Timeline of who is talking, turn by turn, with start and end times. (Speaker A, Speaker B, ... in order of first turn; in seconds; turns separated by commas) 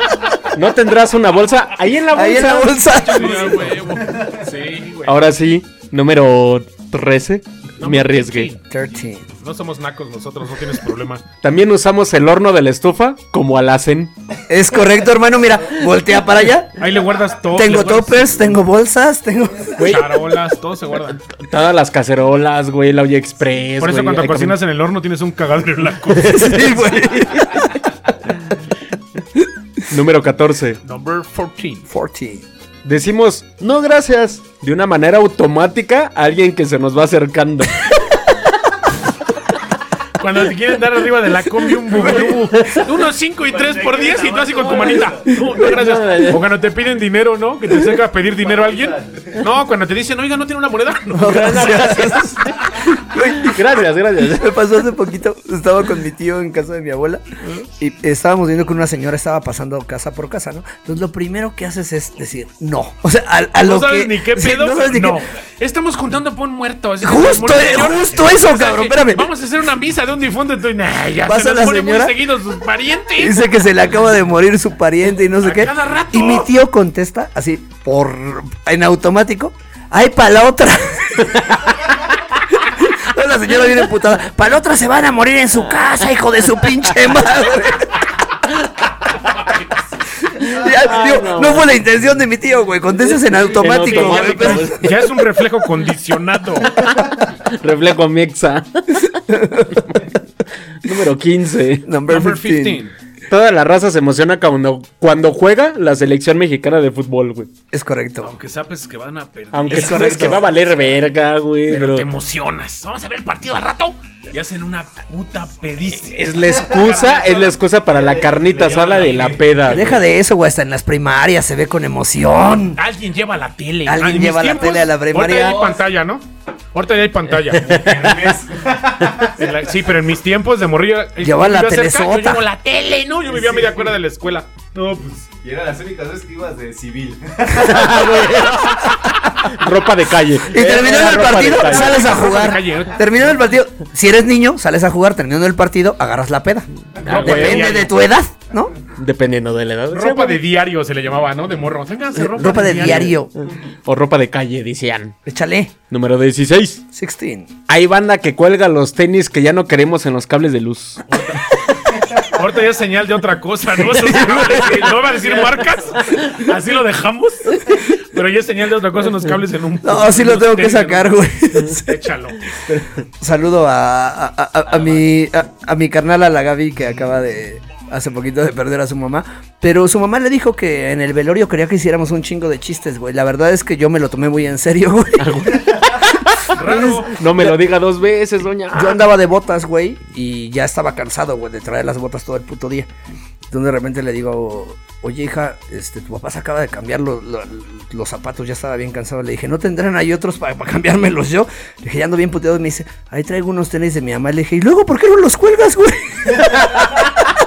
Speaker A: 0.5-3.0, Speaker B: 2.1-3.7, Speaker C: 2.9-5.2, Speaker D: 3.8-4.3, Speaker A: 5.0-8.5, Speaker C: 7.8-8.6, Speaker B: 8.7-9.2, Speaker C: 9.3-11.2, Speaker A: 11.4-14.1, Speaker B: 14.5-16.8, Speaker C: 16.8-18.6, Speaker B: 17.5-19.9, Speaker A: 19.8-20.2, Speaker C: 19.8-21.2, Speaker A: 21.1-24.6, Speaker C: 23.8-26.9, Speaker A: 26.2-26.5, Speaker B: 26.3-27.7, Speaker A: 27.1-27.6, Speaker A: 29.9-30.8, Speaker C: 30.8-31.9, Speaker B: 31.9-32.4, Speaker A: 32.8-38.4, Speaker C: 40.2-51.9, Speaker A: 41.9-42.9, Speaker D: 43.5-45.2, Speaker A: 45.0-46.4, Speaker D: 48.4-49.3, Speaker B: 51.1-53.6, Speaker A: 51.2-52.5, Speaker A: 53.2-54.5, Speaker B: 54.2-57.2, Speaker B: 57.8-65.2, Speaker C: 63.5-73.4, Speaker B: 67.0-69.3, Speaker B: 71.2-72.1, Speaker B: 73.2-81.7, Speaker C: 75.4-76.5, Speaker B: 82.5-88.0, Speaker B: 90.2-94.9, Speaker A: 90.4-91.7, Speaker A: 93.3-95.1, Speaker C: 93.7-96.8, Speaker A: 96.8-99.2, Speaker B: 99.3-100.0, Speaker A: 99.7-100.0, Speaker A: 100.8-101.8, Speaker B: 101.8-102.8, Speaker C: 102.1-102.9, Speaker A: 103.3-107.5, Speaker B: 107.7-108.3, Speaker C: 108.2-110.7, Speaker A: 109.5-112.1, Speaker B: 109.7-110.4, Speaker C: 111.7-117.5, Speaker A: 115.9-120.0, Speaker D: 117.8-119.5, Speaker C: 118.9-119.9, Speaker B: 119.6-122.8, Speaker C: 122.8-127.8, Speaker B: 123.8-125.7, Speaker D: 125.4-125.8, Speaker A: 127.5-128.3, Speaker D: 127.5-129.5, Speaker C: 129.3-134.5, Speaker B: 131.2-132.4, Speaker D: 133.3-133.9, Speaker D: 134.7-138.6, Speaker A: 137.5-142.3, Speaker B: 140.5-148.7, Speaker C: 141.4-143.3, Speaker A: 147.0-147.8, Speaker C: 147.0-147.9, Speaker A: 148.9-150.4, Speaker C: 149.9-153.1, Speaker B: 152.2-153.3, Speaker A: 152.7-153.2, Speaker A: 153.8-155.2, Speaker B: 155.2-155.7, Speaker A: 155.9-156.8, Speaker B: 156.9-157.5, Speaker A: 157.7-161.2, Speaker C: 161.1-172.6, Speaker D: 165.0-166.0, Speaker B: 169.8-172.0, Speaker B: 172.7-185.4, Speaker A: 185.2-189.1, Speaker C: 186.5-187.2, Speaker B: 186.6-187.5, Speaker B: 188.7-192.9, Speaker B: 193.5-206.6, Speaker A: 206.8-207.3